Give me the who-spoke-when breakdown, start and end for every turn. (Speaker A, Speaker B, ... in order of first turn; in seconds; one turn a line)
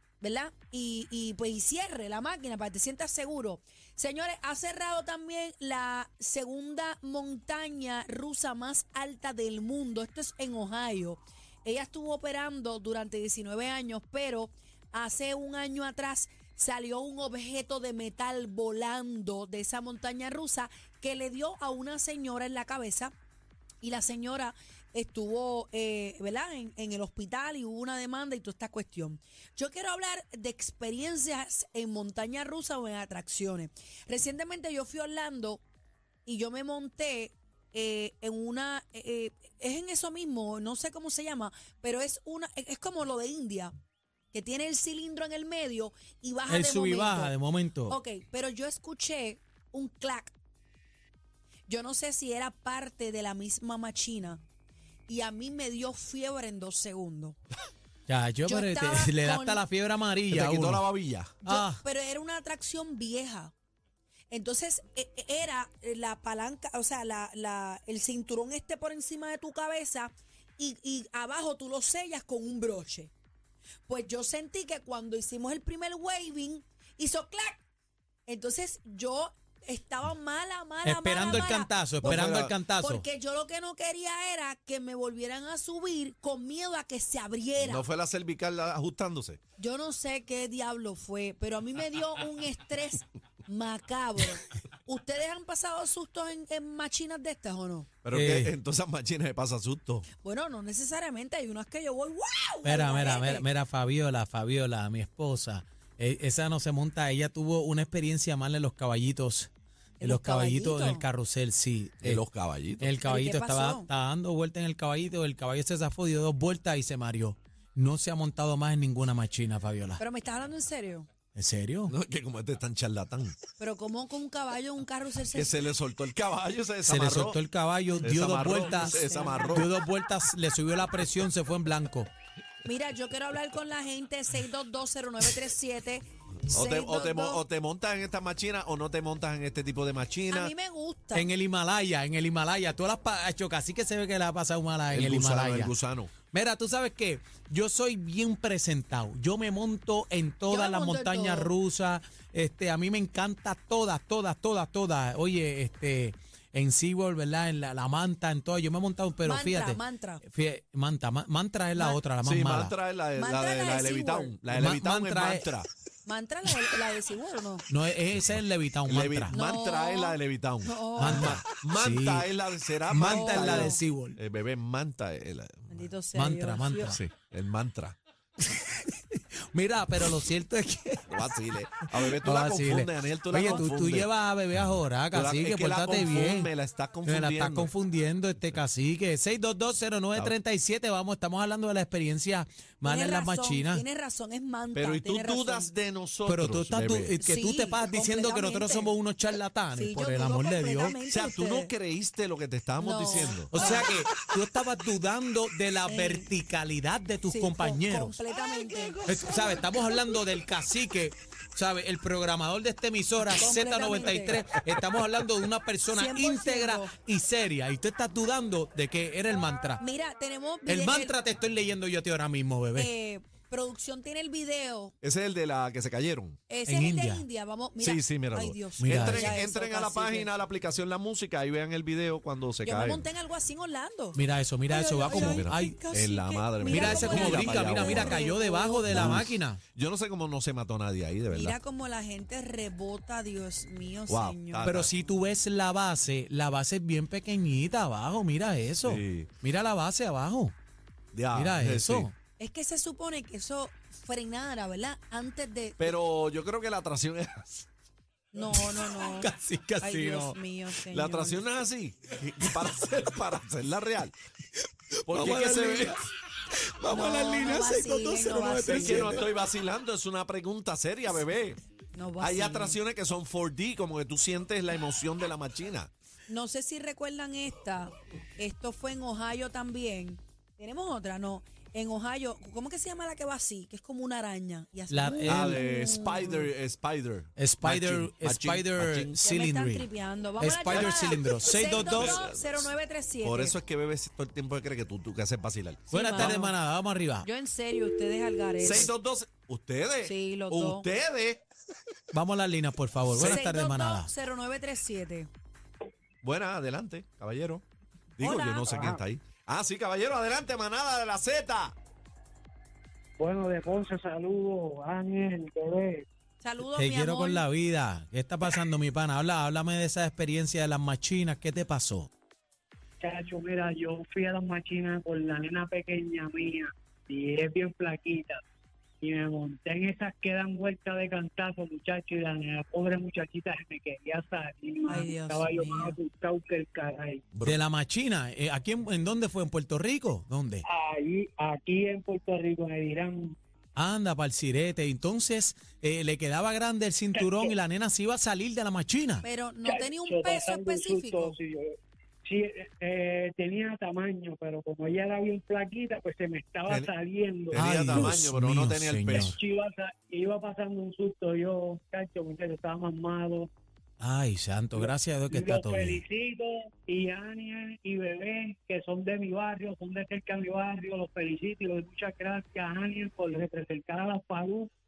Speaker A: 0.2-23.1
Speaker A: 23.8-35.6
Speaker A: 36.2-43.7
Speaker A: 44.3-47.3
Speaker B: 46.5-48.0
Speaker A: 47.9-50.3
Speaker A: 51.7-54.4
Speaker A: 55.1-57.4
Speaker B: 58.1-60.8
Speaker A: 58.5-59.6
Speaker C: 60.3-61.4
Speaker B: 61.4-61.8
Speaker A: 61.5-63.5
Speaker A: 64.3-73.1
Speaker A: 73.9-77.6
Speaker A: 78.3-81.8
Speaker B: 80.8-83.0
Speaker C: 82.0-82.5
Speaker A: 82.8-87.9
Speaker C: 87.6-89.4
Speaker A: 89.6-97.9
Speaker C: 98.0-100.1
Speaker B: 98.1-98.5
Speaker A: 100.2-103.5
Speaker B: 102.6-112.2
Speaker A: 110.0-111.0
Speaker C: 112.0-112.9
Speaker B: 112.8-120.0
Speaker A: 113.0-113.9
Speaker A: 120.0-121.1
Speaker B: 121.3-121.9
Speaker C: 121.9-123.4
Speaker A: 123.6-125.5
Speaker C: 125.3-127.4
Speaker B: 126.8-132.1
Speaker A: 127.9-129.6
Speaker C: 128.0-129.7
Speaker A: 132.6-137.4
Speaker C: 136.5-140.5
Speaker A: 140.3-141.3
Speaker B: 141.1-145.7
Speaker C: 144.9-146.1
Speaker B: 146.2-162.7
Speaker A: 150.5-151.5
Speaker A: 159.2-160.2
Speaker C: 162.2-165.7
Speaker A: 163.2-164.3
Speaker B: 164.5-165.5
Speaker A: 166.0-167.7
Speaker B: 167.7-169.3
Speaker C: 168.2-175.9
Speaker A: 169.3-171.4
Speaker B: 171.0-172.2
Speaker B: 172.9-174.2
Speaker A: 173.0-173.8
Speaker A: 175.7-177.0
Speaker B: 176.1-177.0
Speaker C: 176.9-178.0
Speaker B: 178.4-181.2
Speaker C: 181.1-187.7
Speaker B: 181.8-186.5
Speaker A: 183.4-183.7
Speaker B: 187.0-193.8
Speaker A: 192.8-195.7
Speaker C: 194.7-197.1
Speaker B: 196.2-201.0
Speaker A: 197.2-198.9
Speaker A: 199.7-201.7
Speaker C: 201.1-203.6
Speaker A: 202.8-203.9
Speaker B: 203.5-208.2
Speaker A: 205.8-206.3
Speaker A: 207.3-209.8
Speaker B: 209.0-219.8
Speaker A: 213.3-214.5
Speaker A: 215.9-216.9
Speaker A: 219.8-221.2
Speaker B: 220.7-222.9
Speaker A: 222.8-224.9
Speaker C: 225.0-226.4
Speaker A: 226.5-230.3
Speaker B: 226.7-227.2
Speaker C: 227.8-233.1
Speaker B: 228.8-229.4
Speaker A: 232.6-239.2
Speaker B: 234.1-235.8
Speaker C: 235.2-238.2
Speaker B: 236.7-239.6
Speaker C: 238.8-241.6
Speaker A: 241.3-244.7
Speaker C: 244.1-244.9
Speaker B: 244.6-250.5
Speaker C: 248.8-249.3
Speaker C: 251.1-252.1
Speaker B: 251.3-252.1
Speaker A: 252.4-255.9
Speaker C: 255.8-257.6
Speaker A: 258.3-261.6
Speaker B: 258.5-260.4
Speaker C: 260.9-264.1
Speaker B: 265.0-266.0
Speaker C: 265.1-266.0
Speaker B: 266.8-269.2
Speaker A: 266.9-269.2
Speaker C: 266.9-267.4
Speaker C: 268.7-271.6
Speaker A: 271.9-272.8
Speaker C: 272.2-275.9
Speaker A: 276.3-286.5
Speaker B: 284.9-285.6
Speaker C: 285.3-289.2
Speaker B: 287.4-289.9
Speaker A: 289.2-293.6
Speaker B: 290.4-292.2
Speaker C: 290.7-291.1
Speaker C: 291.8-292.7
Speaker C: 293.2-295.9
Speaker B: 295.9-297.3
Speaker A: 295.9-296.5
Speaker A: 297.2-298.9
Speaker C: 298.6-301.4
Speaker A: 300.0-300.9
Speaker B: 302.1-304.1
Speaker C: 303.1-303.4
Speaker A: 303.2-305.3
Speaker C: 306.2-307.6
Speaker C: 308.2-311.8
Speaker A: 308.2-308.9
Speaker D: 313.2-316.1
Speaker A: 316.4-317.4
Speaker B: 316.6-322.1
Speaker D: 323.0-328.4
Speaker D: 329.0-337.3
Speaker A: 334.9-335.9
Speaker B: 337.4-340.6
Speaker D: 340.6-343.4
Speaker B: 343.8-349.2
Speaker D: 347.2-347.5
Speaker A: 349.2-351.4
Speaker D: 349.6-358.2
Speaker C: 357.5-359.3
Speaker B: 357.5-359.4
Speaker D: 359.2-363.5
Speaker B: 364.0-366.0
Speaker D: 364.7-374.7